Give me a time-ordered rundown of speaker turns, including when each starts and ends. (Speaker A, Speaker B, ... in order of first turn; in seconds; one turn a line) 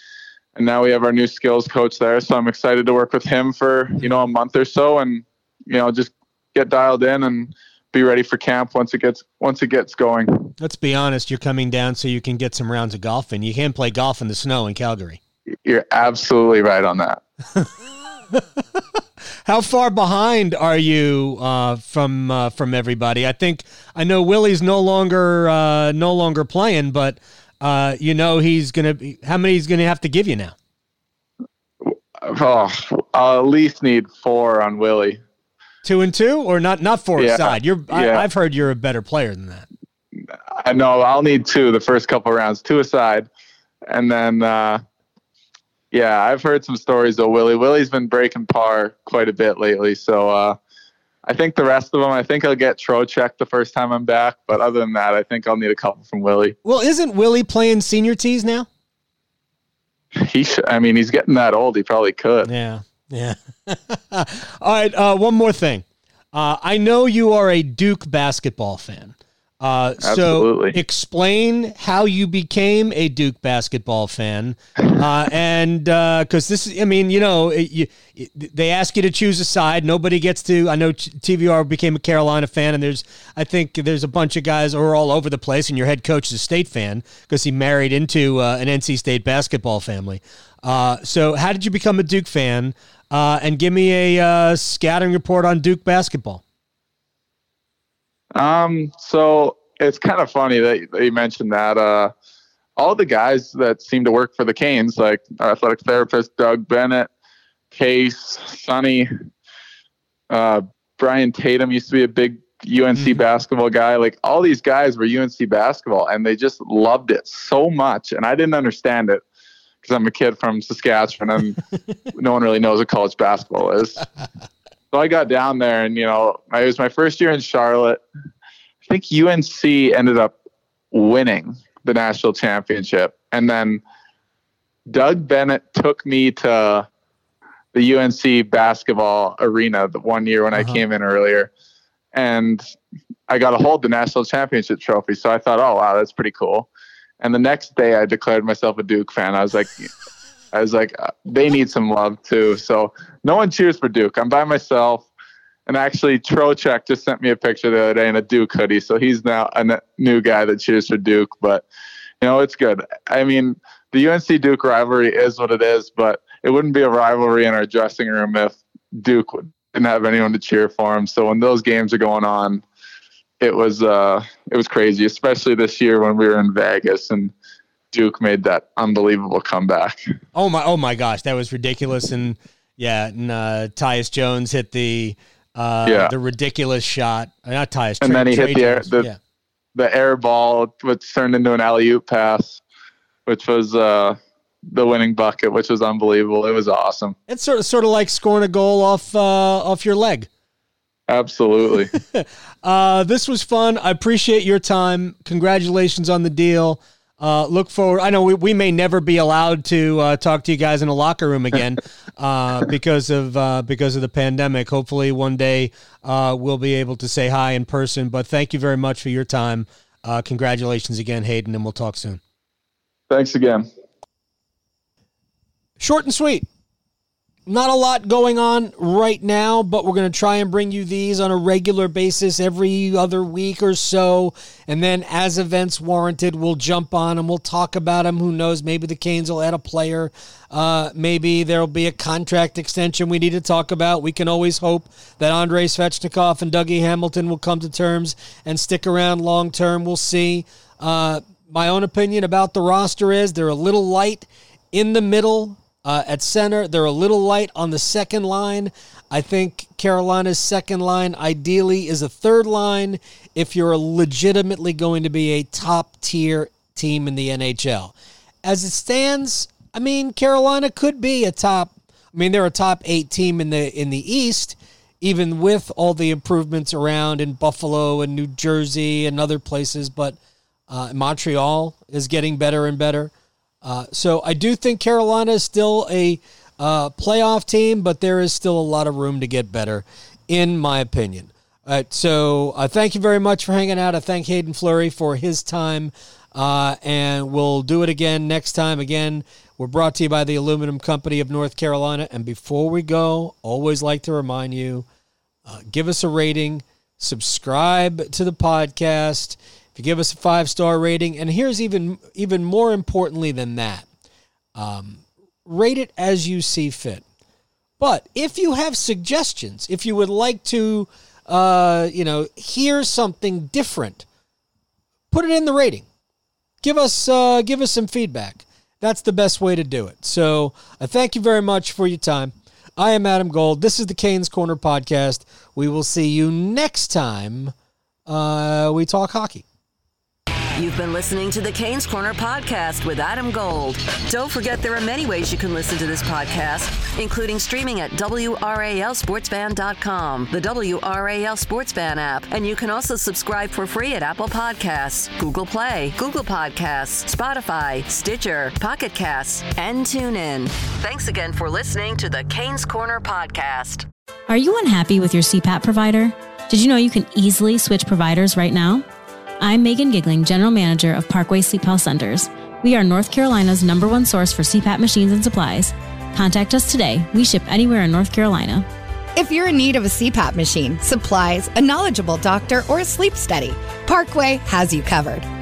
Speaker A: 0.6-10.5
Speaker B: 10.6-15.2
Speaker A: 15.6-17.2
Speaker B: 18.3-30.6
Speaker A: 31.8-35.2
Speaker B: 35.8-39.7
Speaker A: 37.2-38.2
Speaker A: 40.5-43.3
Speaker A: 43.9-44.8
Speaker A: 45.9-50.6
Speaker A: 51.3-56.6
Speaker B: 56.6-58.7
Speaker A: 60.1-62.5
Speaker B: 62.5-96.4
Speaker A: 70.0-70.8
Speaker A: 98.3-102.1
Speaker A: 102.8-107.1
Speaker A: 107.7-109.1
Speaker A: 110.3-119.2
Speaker A: 119.8-121.6
Speaker A: 122.1-124.0
Speaker A: 124.9-128.0
Speaker A: 128.8-130.3
Speaker A: 130.9-133.8
Speaker A: 134.9-136.9
Speaker A: 137.7-141.5
Speaker B: 140.6-140.8
Speaker A: 142.1-142.6
Speaker A: 143.3-146.7
Speaker A: 147.2-149.9
Speaker A: 150.5-155.1
Speaker A: 155.7-161.7
Speaker A: 162.2-172.6
Speaker A: 173.4-177.3
Speaker A: 177.9-180.0
Speaker B: 180.3-189.2
Speaker A: 185.8-186.1
Speaker A: 188.0-189.1
Speaker A: 189.8-192.6
Speaker A: 193.3-197.2
Speaker B: 197.3-200.3
Speaker A: 201.1-201.9
Speaker B: 201.9-222.2
Speaker A: 223.1-223.7
Speaker B: 225.8-226.5
Speaker B: 227.5-280.2
Speaker B: 280.7-283.1
Speaker B: 283.6-304.9
Speaker B: 305.5-313.9
Speaker B: 314.6-317.0
Speaker B: 317.8-324.1
Speaker B: 325.1-325.9
Speaker B: 326.6-337.5
Speaker B: 338.1-339.4
Speaker C: 340.6-363.9
Speaker D: 364.3-368.9
Speaker D: 369.4-378.7
Speaker E: 379.2-385.3